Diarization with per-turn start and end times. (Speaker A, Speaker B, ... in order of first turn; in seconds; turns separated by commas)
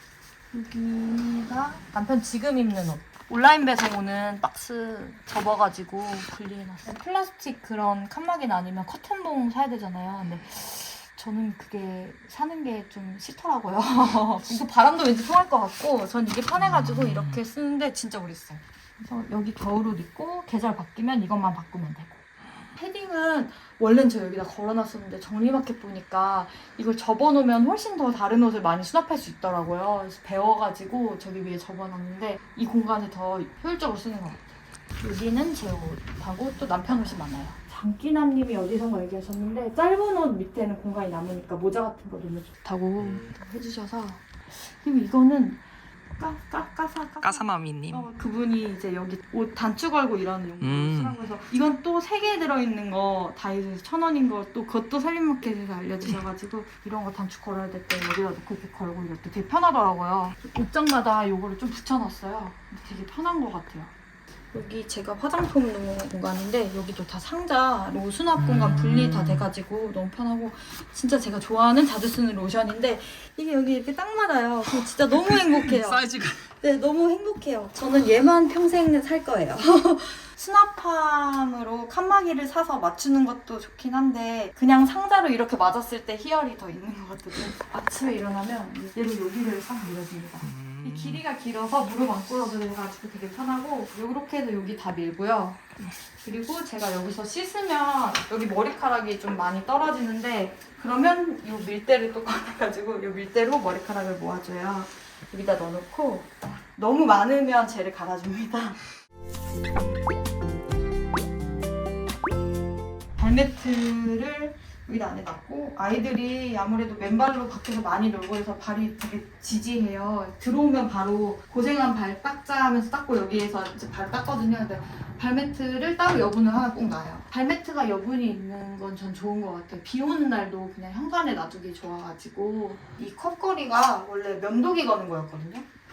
Speaker A: 0.5-22.2, Speaker B: 16.6-17.4, Speaker A: 22.8-45.6, Speaker B: 43.0-43.4, Speaker A: 46.2-63.9, Speaker B: 47.2-48.1, Speaker B: 50.6-51.2, Speaker A: 64.5-76.0, Speaker B: 68.4-69.5, Speaker B: 75.1-76.5, Speaker A: 76.6-108.8, Speaker B: 90.4-91.2, Speaker A: 113.2-135.7